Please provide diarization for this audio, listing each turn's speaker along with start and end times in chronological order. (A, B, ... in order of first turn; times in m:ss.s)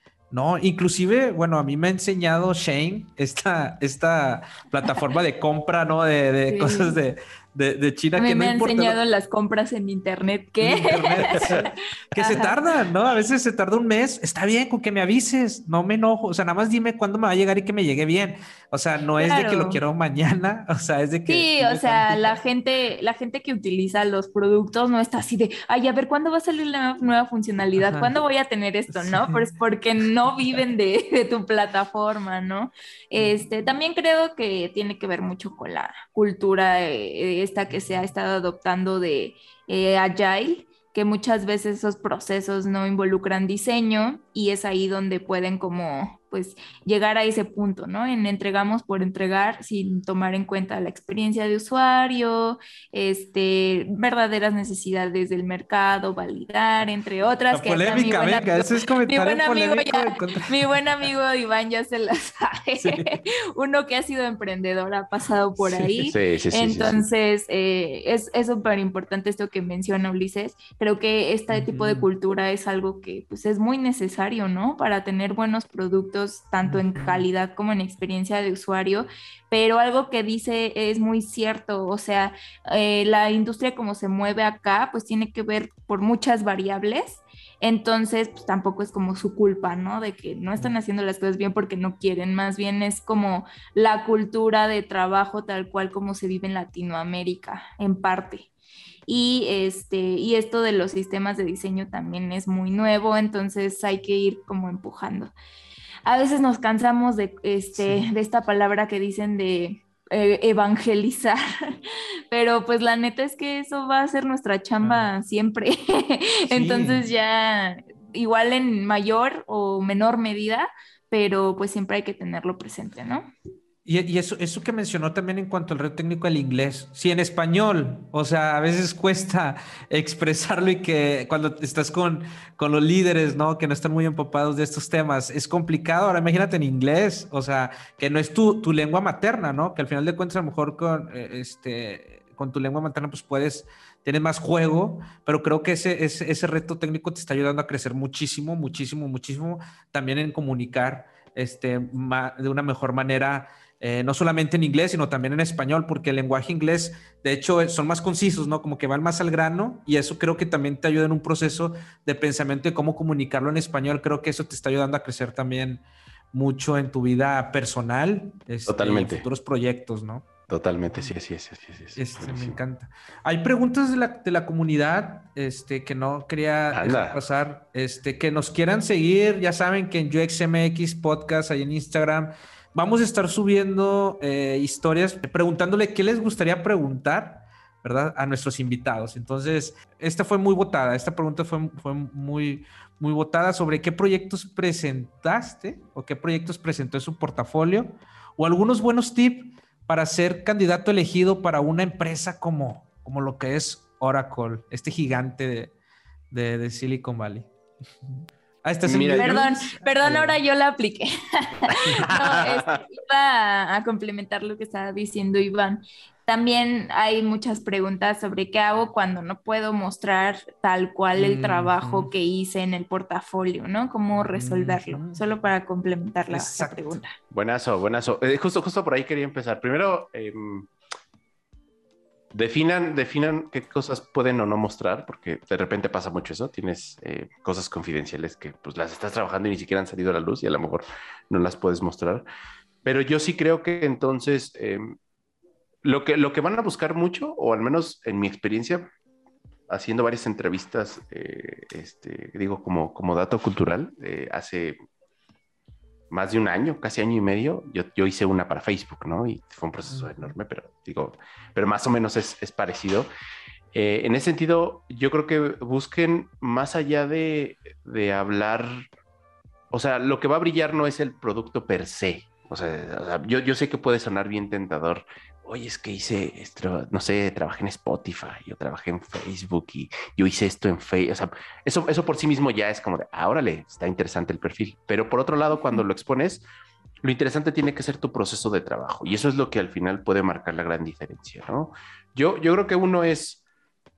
0:00.3-0:09.0 A
0:06.5-0:07.0 B
0:08.2-0:12.6 B
0:10.6-0:22.4 A
0:19.2-0:19.8 B
0:21.3-1:38.5 B
0:27.8-0:28.2 A
0:28.9-0:29.4 A
0:57.5-1:00.7 A
1:02.8-1:03.1 A
1:05.6-1:06.1 A
1:06.0-1:07.0 C
1:11.5-1:12.1 A
1:16.6-1:17.2 A
1:39.1-1:45.3 B
1:46.0-1:51.7 B
1:47.8-1:48.1 A
1:52.3-2:03.3 B
1:54.8-1:55.1 A
1:56.5-1:57.0 A
2:03.8-2:50.2 A
2:48.7-2:49.2 C
2:50.5-2:52.6 C
2:52.0-3:25.7 A
2:56.7-2:57.2 C
3:26.3-3:27.5 A
3:28.0-3:30.3 A
3:28.8-3:29.4 C
3:29.2-3:47.1 B
3:31.7-3:32.8 C
3:41.1-3:42.1 A
3:44.1-3:45.2 A
3:46.3-3:47.0 A
3:47.3-3:50.7 C
3:52.3-4:02.2 C
4:02.8-4:04.9 C
4:05.8-4:08.9 C
4:09.7-4:14.8 C
4:16.1-4:23.1 C
4:23.7-4:28.9 C
4:29.7-4:46.4 C
4:47.0-4:53.4 C